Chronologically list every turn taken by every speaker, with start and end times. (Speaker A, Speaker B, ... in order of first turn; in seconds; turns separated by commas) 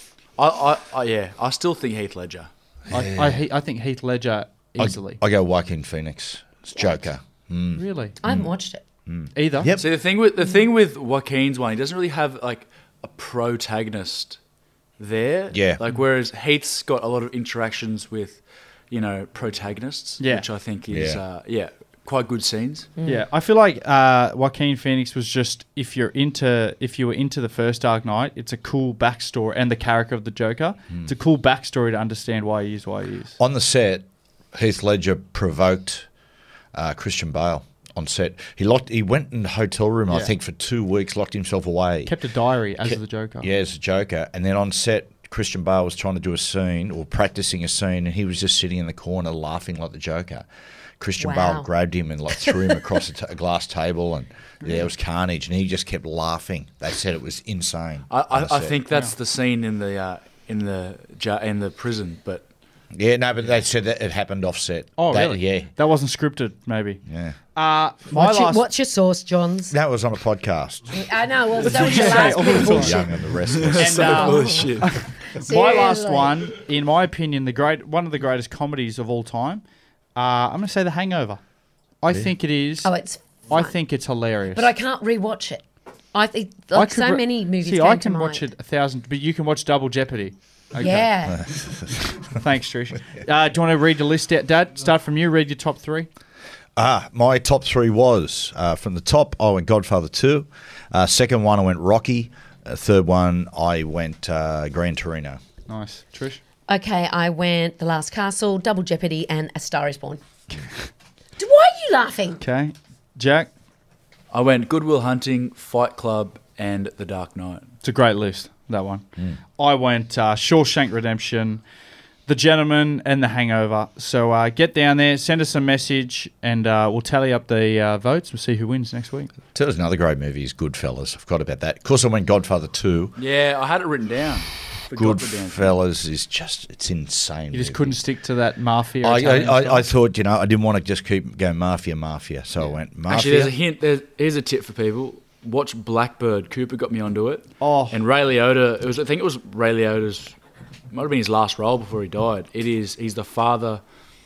Speaker A: 0.4-2.5, Speaker B: 2.9-3.4, Speaker C: 2.9-5.2, Speaker B: 4.8-8.5, Speaker D: 6.7-7.1, Speaker C: 7.7-8.2, Speaker D: 8.2-8.8, Speaker B: 9.1-9.9, Speaker C: 9.3-9.7, Speaker A: 9.8-14.4, Speaker A: 15.0-22.9, Speaker B: 15.5-15.8, Speaker C: 20.2-20.4, Speaker B: 20.9-21.2, Speaker D: 23.0-23.2, Speaker C: 23.0-33.4, Speaker B: 33.4-36.1, Speaker B: 36.7-42.1, Speaker C: 42.0-43.5, Speaker B: 42.8-50.5, Speaker B: 51.0-58.8, Speaker D: 51.2-51.7, Speaker A: 58.1-62.5, Speaker B: 62.9-65.7, Speaker C: 65.0-67.0, Speaker B: 67.0-67.4, Speaker C: 67.5-68.7, Speaker D: 68.1-69.8, Speaker B: 69.7-71.0, Speaker D: 70.9-73.1, Speaker C: 71.7-73.0, Speaker A: 71.7-72.5, Speaker B: 72.0-74.3, Speaker A: 73.5-75.1, Speaker C: 73.8-79.6, Speaker D: 74.1-76.4, Speaker C: 80.2-81.4, Speaker C: 82.0-82.9, Speaker D: 82.8-83.7, Speaker C: 83.5-84.7, Speaker D: 84.5-85.6, Speaker D: 86.1-88.4, Speaker C: 86.7-91.1, Speaker D: 90.8-91.4, Speaker B: 91.2-92.0, Speaker C: 92.3-96.1, Speaker B: 96.8-105.4, Speaker C: 105.7-106.4, Speaker D: 106.7-110.2, Speaker D: 111.4-112.4, Speaker C: 112.4-113.5, Speaker A: 114.3-117.7, Speaker C: 117.8-119.0, Speaker C: 119.6-121.6, Speaker C: 122.3-129.3, Speaker B: 129.5-133.2, Speaker A: 133.2-135.8, Speaker B: 134.9-138.0, Speaker C: 137.5-139.8, Speaker B: 139.0-143.5, Speaker A: 143.1-150.3, Speaker C: 147.6-148.0, Speaker A: 150.9-153.8